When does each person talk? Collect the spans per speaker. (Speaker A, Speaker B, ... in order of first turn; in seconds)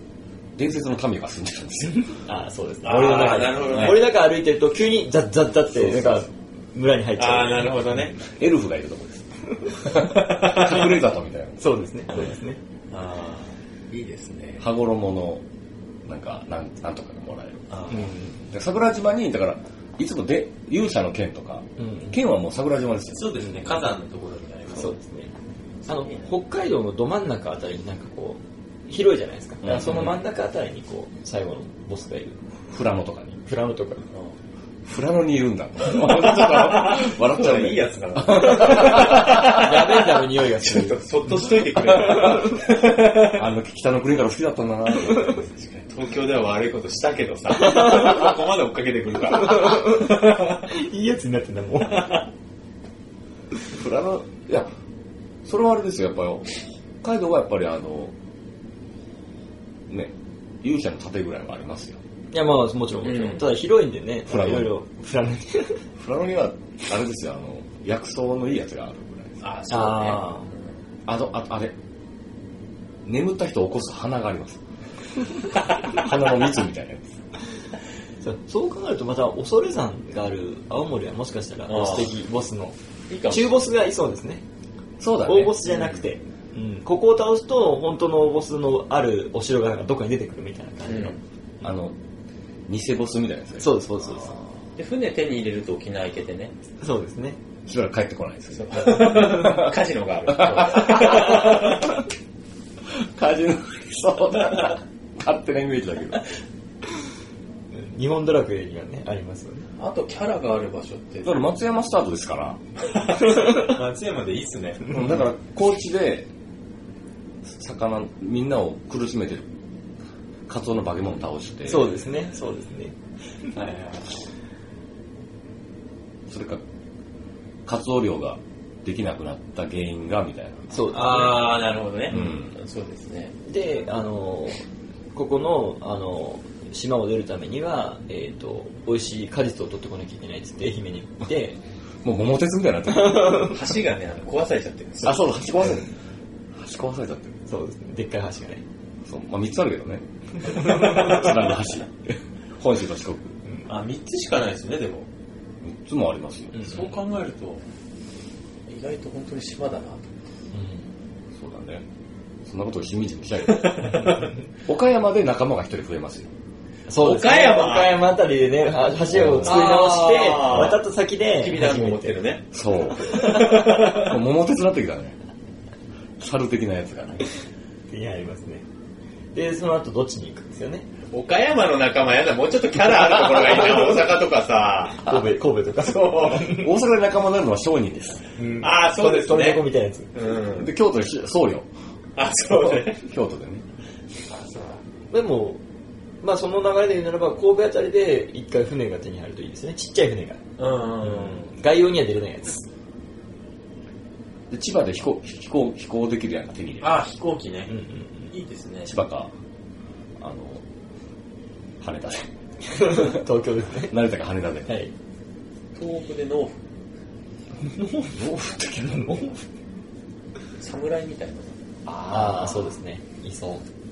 Speaker A: 0.6-2.1, 3.7-4.0, 5.7-6.3, 8.2-11.7, 14.6-15.4, 16.1-17.9, 18.5-23.9, 29.6-30.1, 32.7-33.4, 34.8-39.6, 42.1-42.5, 43.3-45.4, 53.7-54.7, 55.4-56.5, 57.0-58.1, 59.9-62.0, 64.3-64.7, 66.0-69.3, 71.1-71.8, 73.0-74.6, 75.8-77.1, 85.0-85.6, 91.6-92.0, 92.7-94.4, 97.7-99.8, 100.3-101.9, 102.9-106.2, 111.2-112.6, 114.9-116.3, 117.4-119.5, 120.5-122.0, 126.3-126.6, 127.7-130.7, 132.1-132.5, 142.0-143.5, 145.0-145.9, 146.5-147.3, 149.1-153.4, 155.6-156.7, 161.3-161.8, 162.4-164.0, 164.7-166.3, 169.1-169.7, 170.5-170.8, 172.5-175.2, 176.2-177.2, 186.5-188.2, 190.6-191.7, 192.6-193.6, 204.5-207.0, 208.8-209.3, 210.2-210.6, 211.8-213.2, 213.9-214.8, 218.1-219.2, 221.9-222.7
Speaker B: 2.1-8.1, 11.6-12.6, 17.9-18.3, 21.8-22.1, 24.7-25.3, 25.9-32.4, 33.5-34.0, 38.7-41.0, 42.1-42.4, 47.6-48.2, 49.3-52.2, 62.3-65.8, 69.7-70.5, 78.2-82.8, 83.3-84.4, 85.2-91.2, 93.6-94.4, 96.8-97.4, 107.7-109.7, 121.7-122.9, 130.7-131.5, 133.5-134.6, 135.1-141.6, 142.9-143.6, 147.5-148.6, 150.5-151.3, 156.6-156.9, 160.5-160.9, 166.9-172.2, 177.9-178.6, 179.3-180.9, 185.0-186.7, 188.4-190.1, 195.1-195.6, 196.2-200.4, 201.0-202.7, 207.7-208.3, 212.7-214.0, 214.7-214.9, 217.7-219.4, 222.1-223.6
Speaker C: 2.8-4.1, 7.2-8.2, 10.1-10.9, 12.9-14.7, 17.7-18.1, 23.1-25.0, 25.9-26.2, 35.9-43.4, 45.3-50.6, 63.0-63.6, 69.4-70.6, 81.7-82.1, 83.1-83.6, 85.7-86.0, 90.9-91.2, 94.8-96.5, 98.5-102.0, 109.8-111.4, 112.8-115.2, 123.5-124.1, 130.9-133.3, 143.4-145.3, 153.7-155.1, 156.6-157.6, 158.7-160.1, 163.5-164.3, 167.0-168.0, 169.4-172.4, 173.0-174.2, 181.1-185.1, 185.8-186.6, 188.6-190.7, 192.2-193.0, 200.6-201.5, 206.8-207.7, 208.3-208.9, 215.8-216.6, 220.6-221.6